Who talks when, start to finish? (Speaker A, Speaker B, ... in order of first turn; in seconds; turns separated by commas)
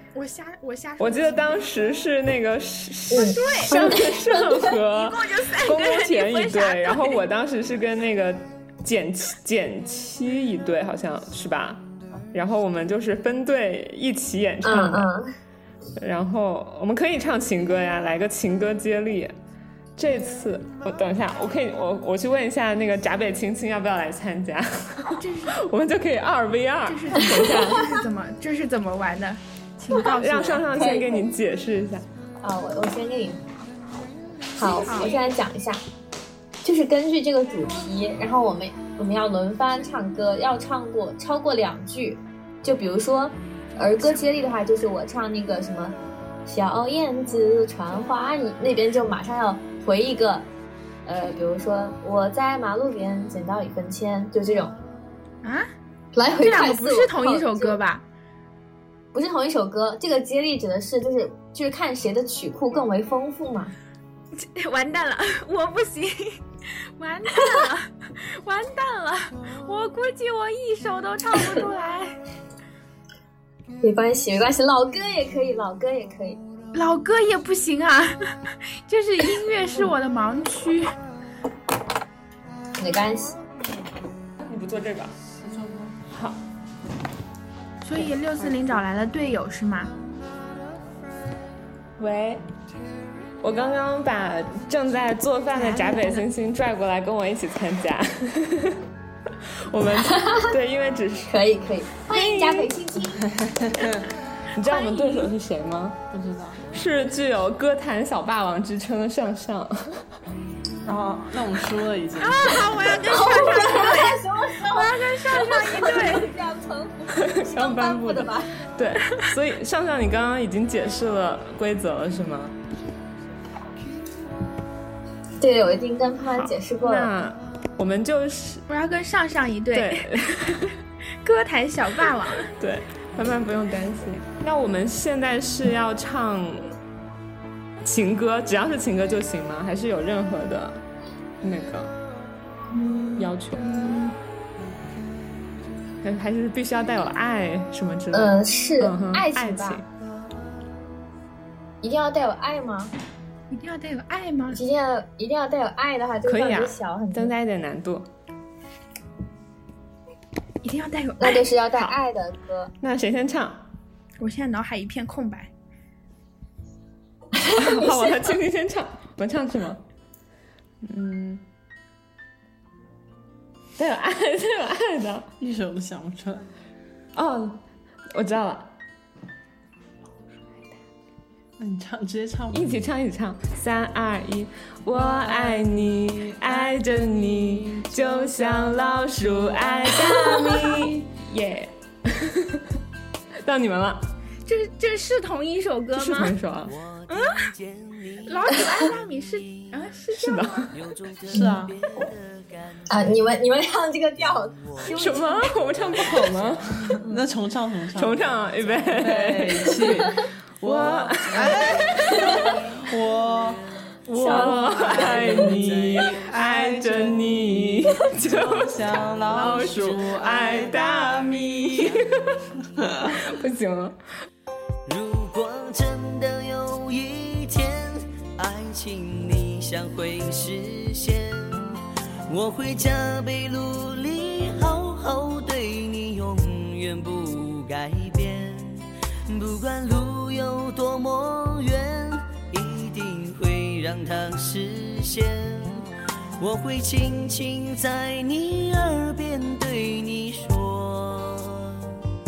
Speaker A: 0.1-1.6, Speaker B: 1.0-11.8, Speaker C: 3.1-4.7, Speaker A: 3.1-4.0, Speaker A: 4.5-7.2, Speaker B: 12.3-15.1, Speaker C: 14.6-15.3, Speaker B: 16.0-19.4, Speaker B: 20.0-27.9, Speaker A: 25.2-25.6, Speaker A: 26.9-30.7, Speaker B: 30.0-32.0, Speaker C: 30.8-31.3, Speaker C: 32.4-33.5, Speaker C: 34.5-35.8, Speaker A: 34.9-35.2, Speaker C: 36.6-50.5, Speaker C: 51.1-54.8, Speaker A: 55.4-55.7, Speaker C: 56.1-57.8, Speaker A: 56.4-58.0, Speaker C: 59.1-63.7, Speaker A: 64.3-72.2, Speaker C: 73.8-76.4, Speaker A: 76.7-80.9, Speaker C: 82.8-83.4, Speaker B: 84.4-85.2, Speaker D: 85.4-86.0, Speaker B: 86.1-86.4, Speaker A: 87.8-89.9, Speaker B: 92.0-92.4, Speaker B: 93.4-98.8, Speaker A: 95.5-96.3, Speaker B: 99.7-101.3, Speaker C: 100.1-100.5, Speaker C: 101.3-103.3, Speaker B: 102.1-102.7, Speaker D: 103.3-104.1, Speaker B: 104.5-106.0, Speaker A: 104.6-105.3, Speaker D: 106.1-106.6, Speaker B: 106.7-110.0, Speaker D: 110.8-112.8, Speaker A: 112.2-116.3, Speaker C: 113.0-118.5, Speaker B: 117.1-122.5, Speaker C: 125.4-127.1, Speaker B: 126.3-128.6, Speaker A: 128.7-130.7, Speaker B: 129.7-130.7, Speaker A: 131.2-132.5, Speaker B: 132.5-136.7, Speaker B: 137.8-140.8, Speaker B: 141.4-141.9, Speaker A: 142.7-144.2, Speaker B: 143.2-143.8, Speaker B: 146.0-149.8, Speaker C: 148.1-149.8, Speaker C: 151.8-152.9, Speaker A: 153.5-154.6, Speaker C: 154.5-157.3, Speaker B: 156.3-158.1, Speaker A: 160.6-161.5, Speaker C: 161.2-162.7, Speaker B: 162.8-163.6, Speaker A: 164.2-165.5, Speaker C: 167.4-168.2, Speaker B: 167.6-169.8, Speaker B: 170.8-171.4, Speaker B: 173.8-175.3, Speaker D: 175.4-176.5, Speaker B: 177.2-177.6, Speaker B: 178.1-178.7, Speaker D: 181.6-182.8, Speaker B: 182.5-192.6, Speaker D: 185.2-188.8, Speaker B: 193.4-194.1, Speaker A: 194.5-196.3, Speaker B: 195.9-196.8, Speaker E: 196.7-198.6, Speaker A: 197.1-197.5, Speaker A: 198.2-200.7, Speaker E: 199.3-199.7, Speaker B: 200.2-200.7, Speaker E: 200.7-203.4, Speaker D: 201.3-201.8, Speaker C: 202.9-205.6, Speaker E: 204.5-205.0, Speaker B: 204.9-206.9, Speaker E: 205.9-206.5, Speaker D: 207.1-208.2, Speaker B: 207.9-212.3, Speaker E: 208.2-208.8, Speaker D: 208.9-213.6, Speaker E: 211.6-213.6, Speaker B: 214.1-222.3, Speaker C: 214.2-215.3, Speaker E: 214.3-216.1, Speaker D: 214.8-222.0, Speaker D: 222.8-223.2, Speaker B: 223.2-224.0, Speaker E: 224.9-231.8, Speaker E: 232.3-245.9, Speaker E: 246.4-251.9